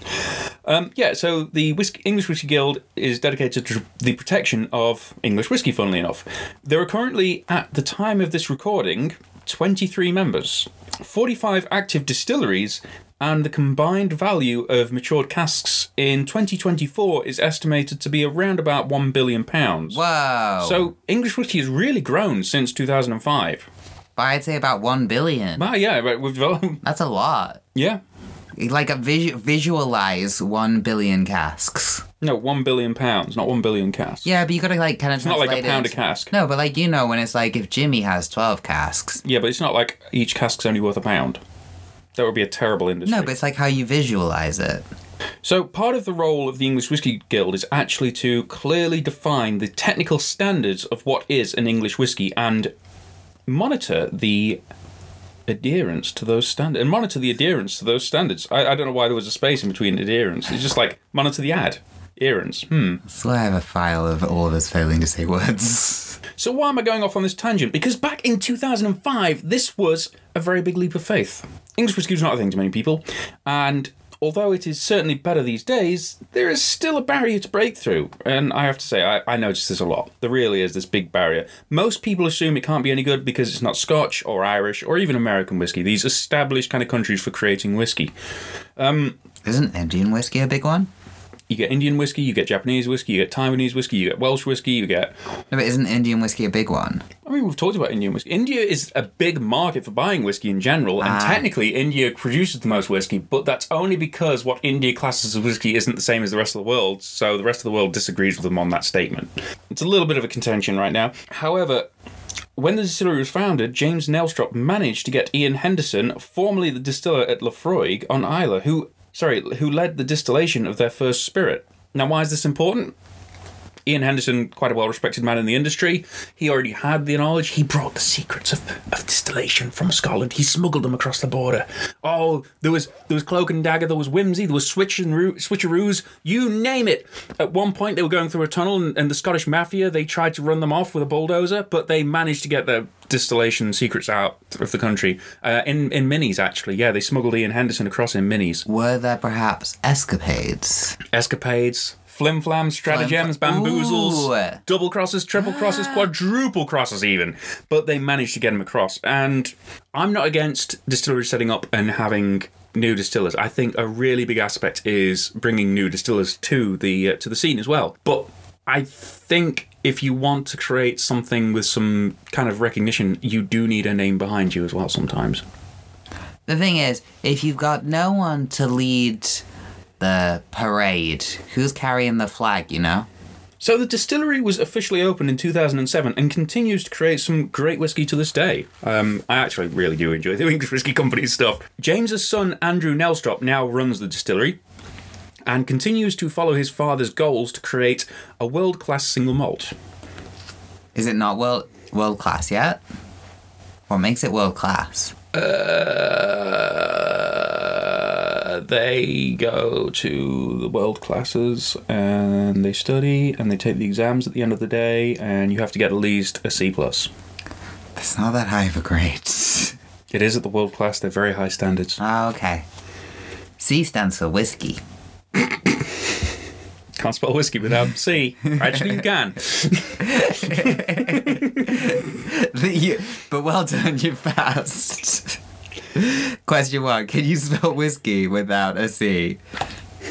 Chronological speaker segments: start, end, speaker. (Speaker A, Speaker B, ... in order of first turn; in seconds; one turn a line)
Speaker A: 0.3-20.0
Speaker B: 19.9-20.9
Speaker A: 20.6-23.7
Speaker B: 24.2-25.7
Speaker A: 25.6-26.8
Speaker B: 26.8-27.6
Speaker A: 27.8-28.0
Speaker B: 28.6-32.0
Speaker A: 32.2-34.3
Speaker B: 34.2-39.2
Speaker A: 35.2-36.3
Speaker A: 39.2-41.4
Speaker A: 42.1-43.3
Speaker B: 43.0-44.8
Speaker A: 45.4-52.7
Speaker A: 53.5-54.6
Speaker A: 55.5-63.0
Speaker B: 63.0-66.2
Speaker A: 66.4-88.1
Speaker A: 88.8-89.2
Speaker B: 89.5-90.9
Speaker A: 91.5-95.2
Speaker B: 95.5-97.1
Speaker A: 97.2-111.9
Speaker B: 101.0-101.5
Speaker A: 112.6-122.9
Speaker A: 123.9-148.6
Speaker B: 148.7-151.0
Speaker A: 151.1-175.4
Speaker B: 152.9-154.6
Speaker B: 155.4-156.1
Speaker B: 176.5-179.4
Speaker B: 180.0-183.1
Speaker A: 183.6-194.6
Speaker A: 195.5-199.7
Speaker B: 200.9-202.8
Speaker B: 203.9-205.2
Speaker A: 205.3-217.1
Speaker B: 218.0-219.8
Speaker A: 220.1-222.0
Speaker B: 222.0-222.7
Speaker B: 223.6-224.8
Speaker A: 227.0-232.0
Speaker B: 228.5-229.0
Speaker B: 230.0-235.4
Speaker B: 235.9-239.4